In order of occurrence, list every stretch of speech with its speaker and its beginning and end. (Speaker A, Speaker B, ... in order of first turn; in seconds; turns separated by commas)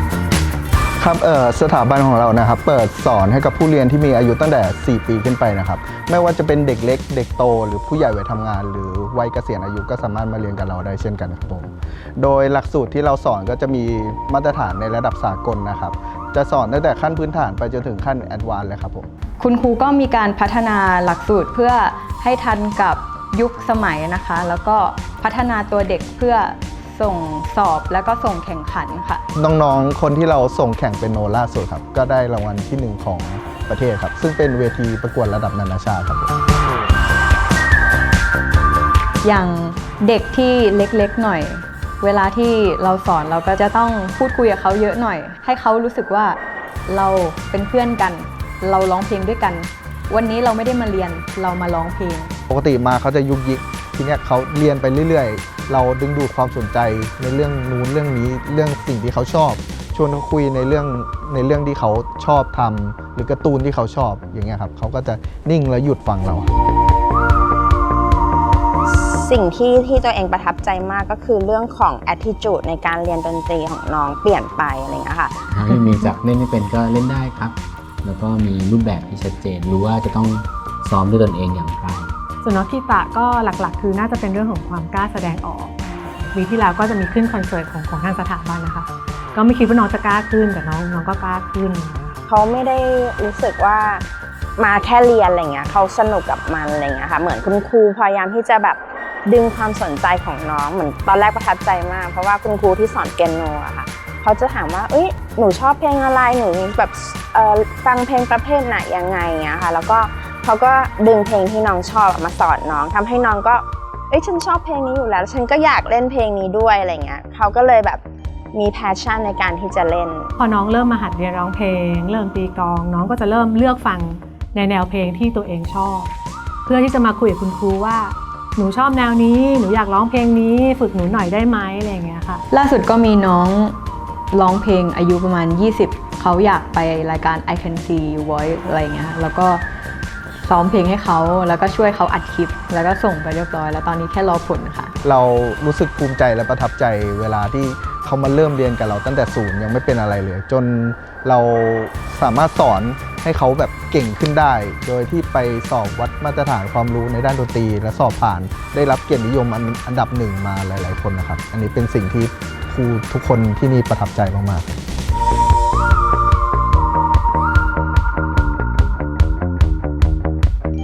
Speaker A: 1.0-19.1, Speaker B: 19.4-29.2, Speaker A: 29.4-36.3, Speaker B: 39.2-52.3, Speaker A: 52.5-66.5, Speaker C: 69.0-75.4, Speaker D: 75.5-82.1, Speaker E: 82.4-92.2, Speaker C: 92.3-94.0, Speaker C: 94.6-120.3, Speaker E: 120.4-126.1, Speaker E: 126.7-132.4, Speaker B: 132.5-133.8, Speaker B: 134.3-139.6, Speaker B: 140.5-144.9, Speaker A: 145.0-164.8